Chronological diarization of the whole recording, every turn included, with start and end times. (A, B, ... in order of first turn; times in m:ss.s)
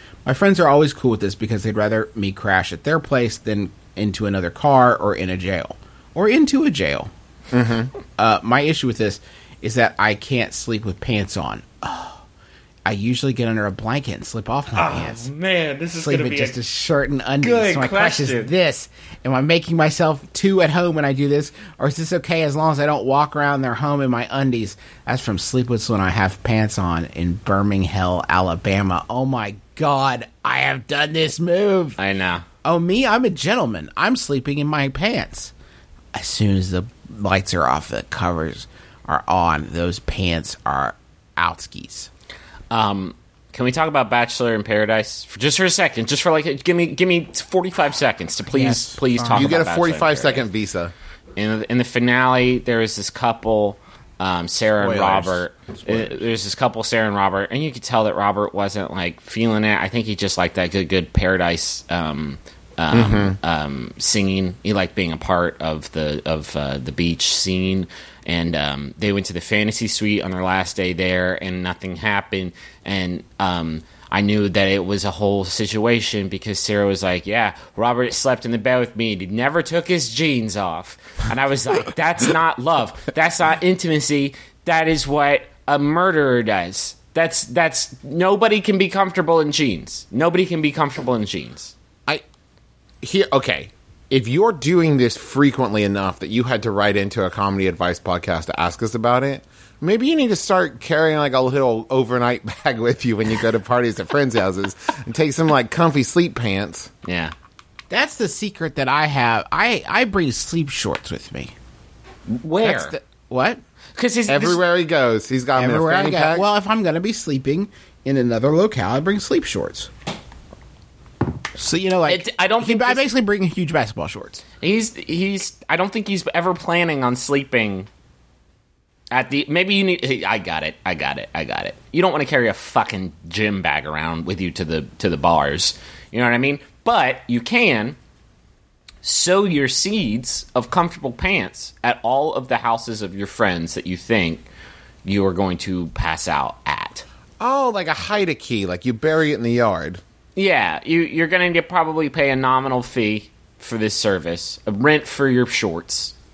0:00.2-0:07.1 A
0:07.5-0:07.9 B
0:08.2-0:12.2 A
0:12.9-0:15.3 A
0:14.7-0:16.6 C
0:15.9-0:32.0 A
0:17.4-0:18.5 C
0:32.0-0:32.4 C
0:32.6-0:35.5 A
0:36.1-0:42.1 A
0:42.7-0:50.5 C
0:48.5-0:49.6 A
0:49.3-0:50.9 B
0:51.4-1:31.7 C
0:54.8-0:56.2 B
1:02.9-1:03.4 B
1:33.0-1:46.9 B
1:47.0-1:47.4 C
1:47.9-1:51.5 A
1:52.3-1:53.0 C
1:52.6-1:53.6 A
1:54.0-1:54.6 C
1:54.3-1:56.5 B
1:55.6-1:59.9 A
2:01.6-2:04.4 A
2:02.1-2:03.0 C
2:04.6-2:07.9 C
2:09.1-2:18.0 C
2:19.0-2:24.5 C
2:25.0-2:27.0 C
2:27.4-2:30.0 B
2:30.4-2:36.2 C